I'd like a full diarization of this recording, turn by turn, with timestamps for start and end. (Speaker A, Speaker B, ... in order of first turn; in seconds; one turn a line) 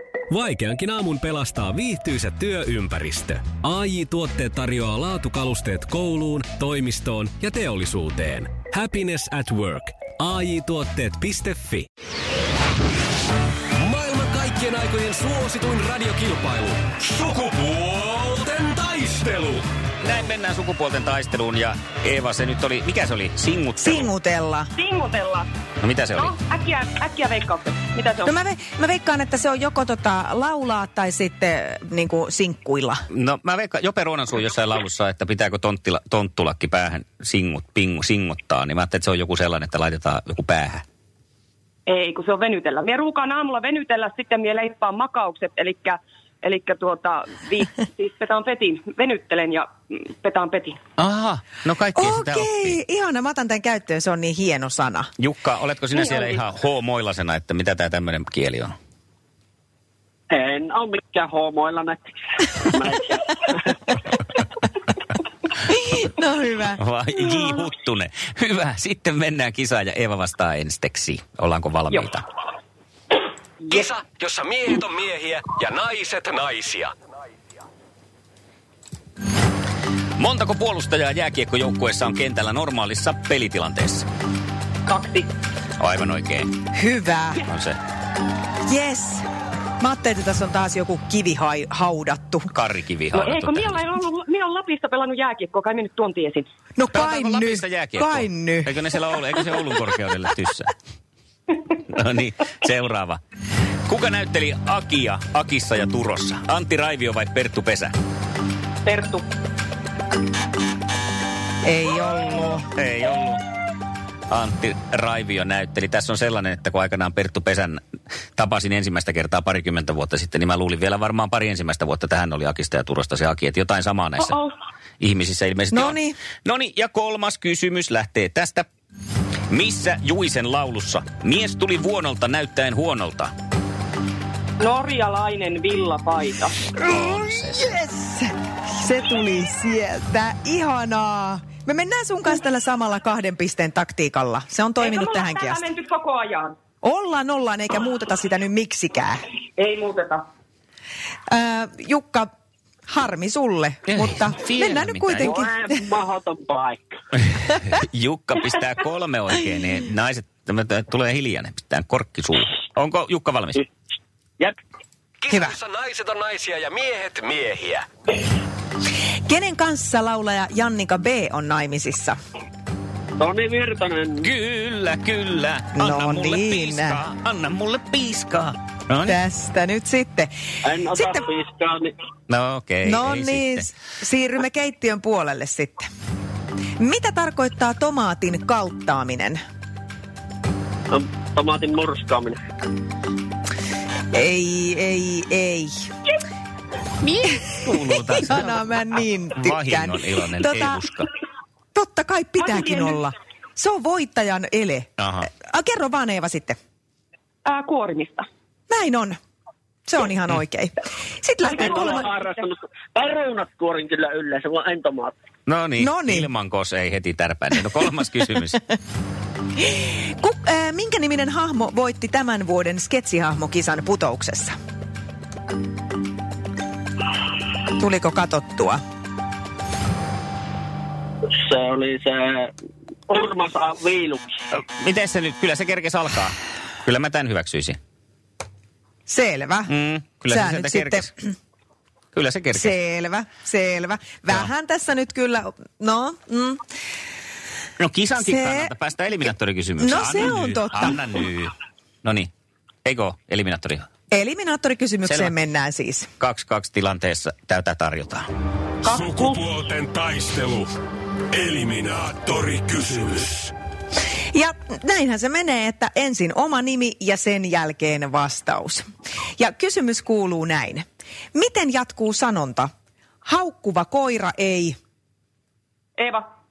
Speaker A: 0.3-11.9
Speaker A: 13.8-19.7
Speaker B: 20.0-24.1
Speaker C: 23.8-24.7
Speaker D: 24.7-25.5
Speaker B: 25.8-26.3
Speaker D: 26.1-28.4
Speaker C: 28.2-33.0
Speaker B: 33.1-40.8
Speaker D: 41.9-50.8
Speaker B: 51.0-52.8
Speaker C: 51.9-55.1
Speaker B: 55.2-58.7
Speaker D: 56.0-56.4
Speaker E: 60.3-63.7
Speaker C: 65.7-66.8
Speaker B: 66.8-72.2
Speaker A: 73.7-76.9
Speaker B: 80.2-84.0
Speaker D: 84.9-85.3
Speaker B: 85.8-86.5
Speaker C: 86.7-87.4
Speaker B: 87.5-87.8
Speaker C: 88.7-89.2
Speaker C: 89.8-92.5
Speaker B: 92.5-93.8
Speaker D: 93.1-96.5
Speaker C: 96.8-98.8
Speaker B: 96.9-100.7
Speaker B: 101.9-103.2
Speaker B: 103.9-107.9
Speaker D: 108.8-109.2
Speaker C: 111.6-112.7
Speaker B: 112.8-113.4
Speaker B: 114.3-117.8
Speaker B: 118.3-124.4
Speaker D: 124.2-124.5
Speaker B: 125.0-128.7
Speaker C: 125.7-126.2
Speaker B: 129.5-133.3
Speaker D: 134.6-136.6
Speaker C: 136.8-145.7
Speaker B: 136.8-137.6
Speaker D: 144.8-146.6
Speaker C: 146.8-149.2
Speaker D: 149.6-150.2
Speaker C: 151.3-152.3
Speaker C: 152.9-155.8
Speaker B: 153.9-155.3
Speaker E: 155.2-156.9
Speaker B: 157.7-163.6
Speaker A: 165.2-167.8
Speaker C: 169.3-172.2
Speaker E: 173.2-174.3
Speaker B: 174.2-179.2
Speaker C: 175.7-177.0
Speaker C: 179.1-180.3
Speaker E: 180.6-181.9
Speaker C: 180.9-181.2
Speaker B: 182.3-183.7
Speaker C: 182.8-185.9
Speaker C: 186.8-189.4
Speaker E: 190.9-192.4
Speaker C: 194.1-195.8
Speaker C: 197.2-200.8
Speaker B: 197.5-198.6
Speaker B: 199.3-201.1
Speaker C: 201.7-206.6
Speaker D: 202.4-203.0
Speaker B: 205.0-205.3
Speaker D: 207.4-208.2
Speaker C: 208.7-209.2
Speaker C: 209.8-212.1
Speaker D: 211.5-212.3
Speaker E: 211.6-215.1
Speaker B: 215.5-218.6
Speaker C: 215.8-216.3
Speaker C: 219.7-224.5
Speaker C: 227.8-228.8
Speaker E: 231.3-232.5
Speaker E: 233.1-234.3
Speaker B: 234.5-237.8
Speaker C: 239.1-239.7
Speaker B: 239.7-241.1
Speaker C: 240.3-241.3
Speaker B: 242.1-242.7
Speaker C: 242.5-246.6
Speaker B: 247.8-251.5
Speaker C: 248.2-248.7
Speaker C: 249.8-251.0
Speaker B: 252.0-252.3
Speaker B: 252.8-253.8
Speaker C: 254.1-256.1
Speaker B: 255.1-255.3
Speaker B: 256.2-258.2
Speaker A: 258.8-260.7
Speaker D: 258.8-259.4
Speaker A: 261.3-263.5
Speaker C: 264.3-268.8
Speaker C: 269.4-272.7
Speaker C: 273.2-274.8
Speaker D: 276.0-276.3